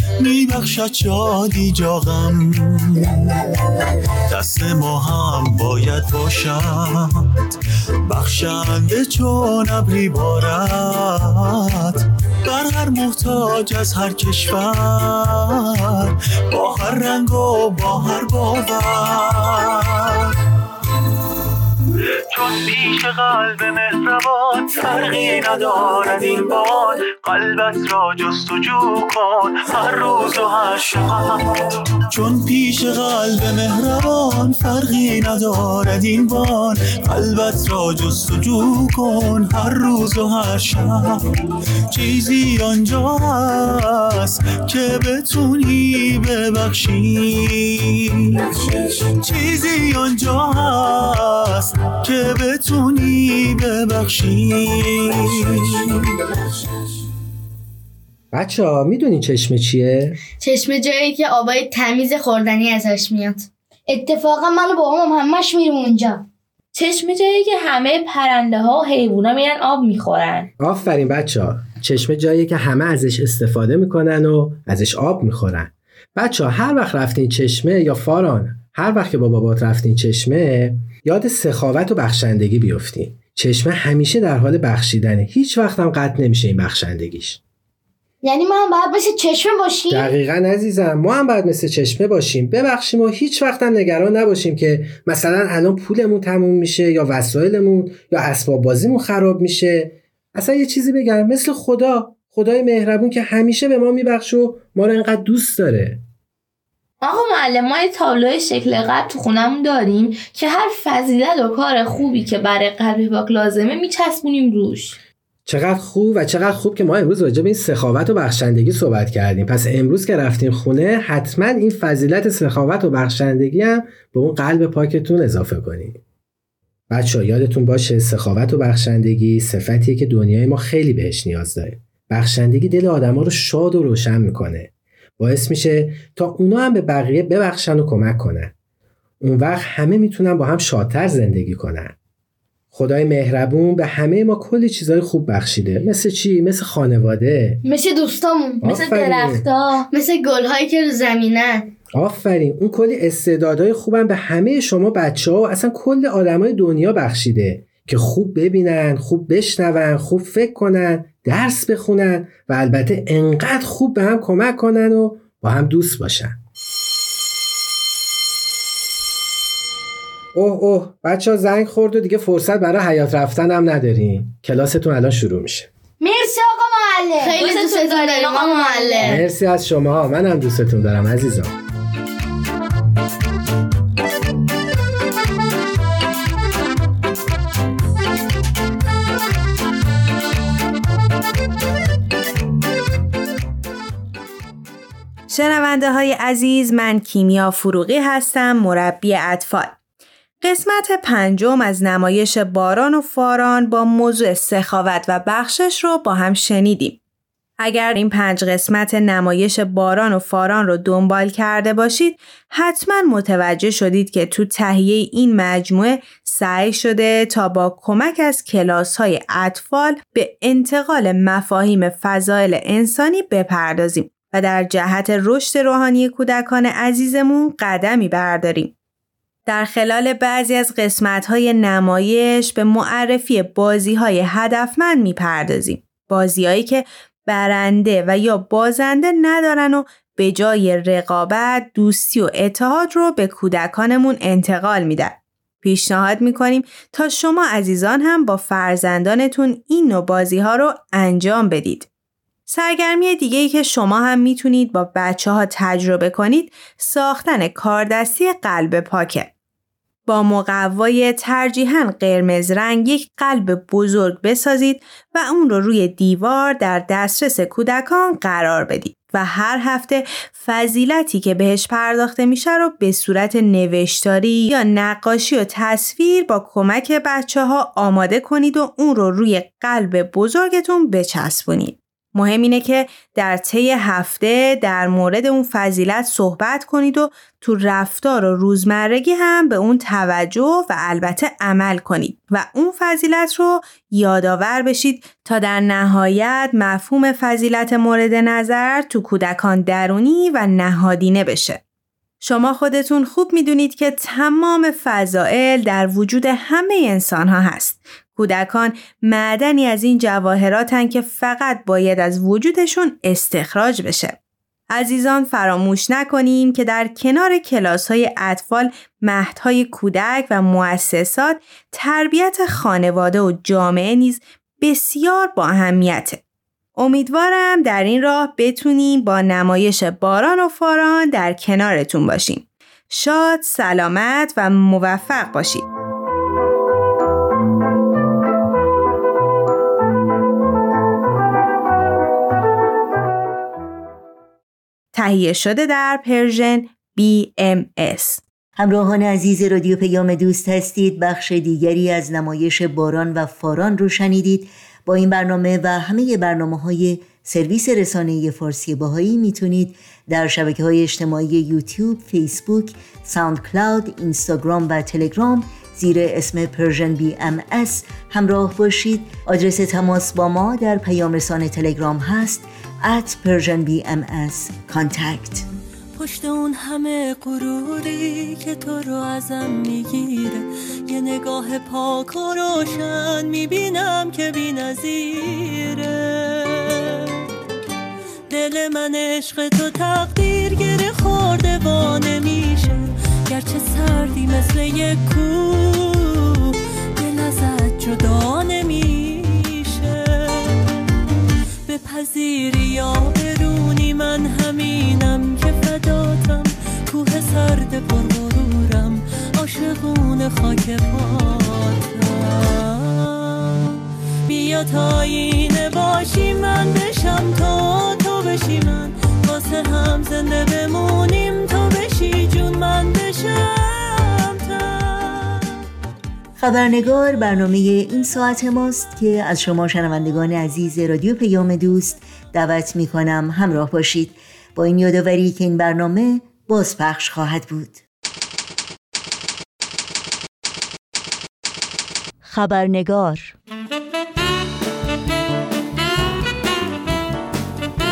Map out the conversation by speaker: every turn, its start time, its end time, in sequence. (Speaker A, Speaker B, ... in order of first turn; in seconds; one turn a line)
Speaker A: 0.2-20.4
Speaker A: 21.9-56.3
Speaker B: 58.3-60.2
Speaker C: 60.4-63.5
Speaker D: 63.9-66.2
Speaker E: 66.7-70.5
Speaker B: 70.6-87.4
Speaker D: 88.2-90.1
Speaker B: 89.9-106.0
Speaker E: 107.0-115.0
Speaker B: 115.5-126.0
Speaker B: 126.9-138.5
Speaker B: 139.2-141.9
Speaker B: 142.7-147.6
Speaker D: 147.7-149.3
Speaker B: 148.6-149.4
Speaker E: 148.7-149.9
Speaker C: 149.9-151.7
Speaker B: 151.9-166.4
Speaker B: 170.3-175.7
Speaker D: 176.0-177.5
Speaker C: 177.2-179.2
Speaker E: 177.4-179.2
Speaker B: 179.0-181.6
Speaker F: 195.3-199.8
Speaker F: 200.4-207.0
Speaker F: 207.6-228.7
Speaker F: 229.5-251.9
Speaker F: 252.5-259.3
Speaker F: 260.1-301.6
Speaker F: 302.2-314.2
Speaker F: 314.7-326.2
Speaker F: 326.8-335.7
Speaker F: 344.9-348.2
Speaker G: 348.6-375.4
Speaker H: 376.0-387.2
Speaker H: 388.3-400.6
Speaker H: 401.7-413.7
Speaker H: 414.3-425.4
Speaker G: 426.4-437.8
Speaker G: 442.2-443.4